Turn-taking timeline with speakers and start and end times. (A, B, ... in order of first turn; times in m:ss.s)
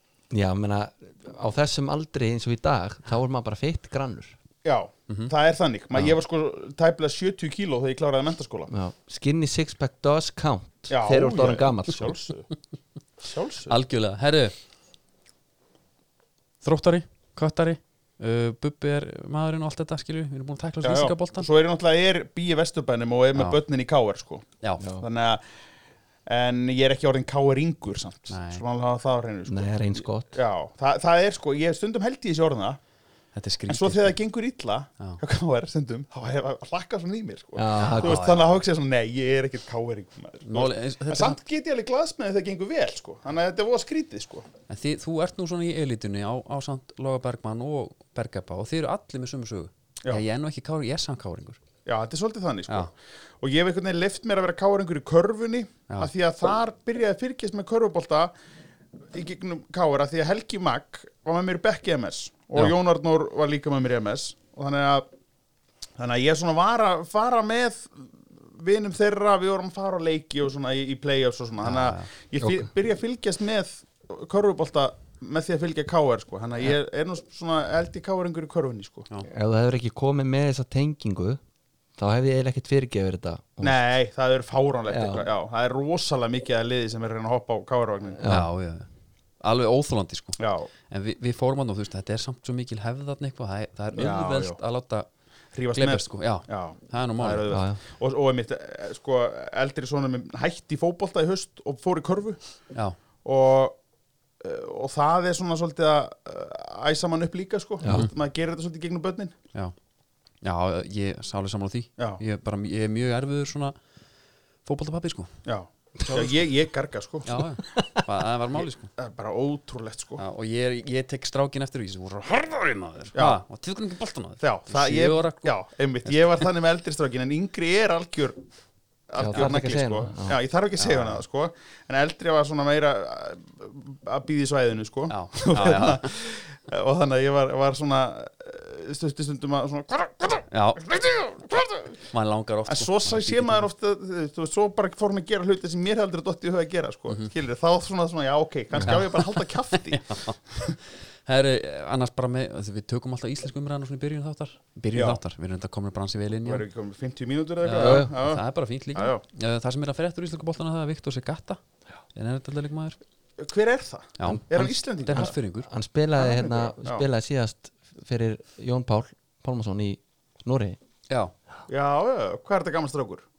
0:00.3-0:04.4 A
0:04.6-0:08.7 B
0:08.7-0:12.2 A
0:10.9-0:12.5 B
0:13.2-0:13.7 B
0:13.7-0:14.5 C
0:16.6-0:21.5 C
0:20.8-0:25.4 B
0:26.3-0:32.8 B
0:28.3-0:28.6 C
0:29.5-0:30.3 A
0:33.3-0:34.2 C
0:33.7-0:44.5 B
0:37.6-0:38.3 A
0:37.8-0:38.5 C
0:40.4-0:41.4 C
0:44.7-0:51.6 C
0:51.8-0:58.3 B
0:59.1-1:05.0 B
1:06.0-1:19.1 B
1:11.6-1:12.1 C
1:12.4-1:12.7 A
1:19.2-1:21.4 A
1:22.0-1:23.8 A
1:23.6-1:28.2 B
1:24.9-1:25.2 A
1:28.2-1:28.5 A
1:28.2-1:28.9 C
1:29.4-1:35.1 C
1:30.4-1:30.7 B
1:33.9-1:34.6 B
1:35.5-1:42.4 B
1:35.7-1:37.5 C
1:37.5-1:37.8 A
1:43.2-1:43.8 B
1:44.4-1:49.3 B
1:47.8-1:48.1 A
1:50.4-1:53.8 C
1:54.6-1:55.3 C
1:55.4-1:57.4 B
1:56.0-1:56.4 C
1:57.2-1:58.9 C
1:59.0-2:00.2 B
2:00.2-2:05.5 C
2:03.1-2:03.4 B
2:04.4-2:08.4 B
2:06.1-2:06.4 C
2:09.1-2:22.0 B
2:09.2-2:10.4 A
2:10.8-2:11.2 C
2:15.1-2:16.1 C
2:20.5-2:20.8 C
2:22.1-2:23.6 C
2:22.7-2:30.8 B
2:28.8-2:30.4 C
2:31.2-2:36.6 C
2:34.9-2:35.2 B
2:36.4-2:39.2 B
2:37.6-2:41.6 C
2:37.8-2:38.1 A
2:42.1-2:43.0 C
2:43.4-2:45.3 B
2:44.2-2:45.7 C
2:44.2-2:50.8 A
2:46.2-2:47.0 B
2:51.7-2:53.2 B